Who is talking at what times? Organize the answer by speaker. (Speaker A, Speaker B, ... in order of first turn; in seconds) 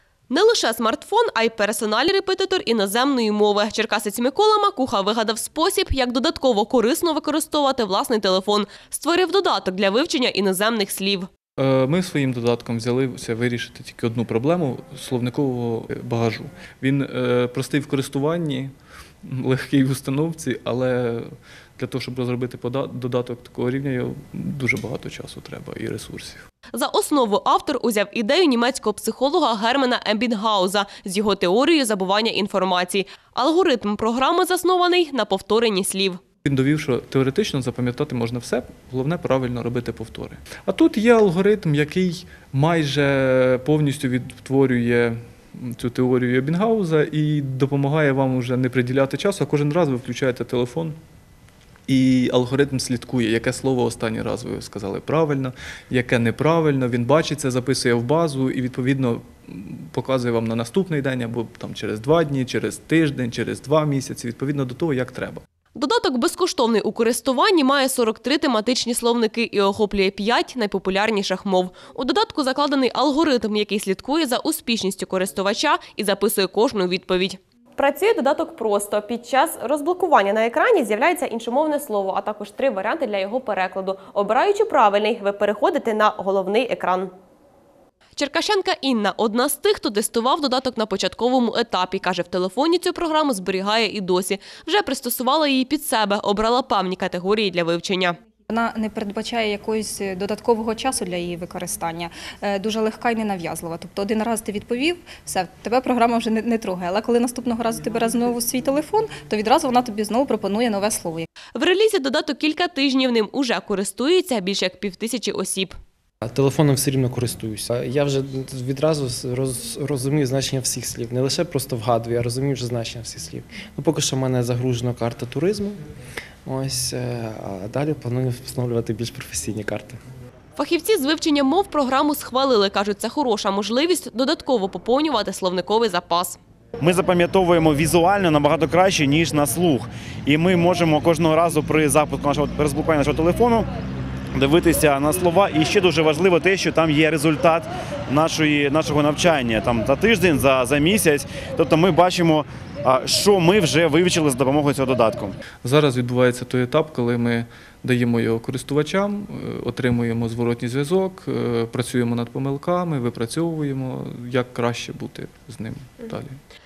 Speaker A: 0.3-11.3, 26.7-36.2, 65.7-87.1, 88.2-98.2, 111.5-115.8, 130.6-136.4
Speaker B: 11.6-18.7, 19.2-26.5, 36.4-51.0, 51.9-65.4, 155.6-166.4
Speaker C: 98.5-111.2
Speaker D: 116.2-125.8, 126.4-130.0
Speaker E: 136.8-143.7, 144.3-155.3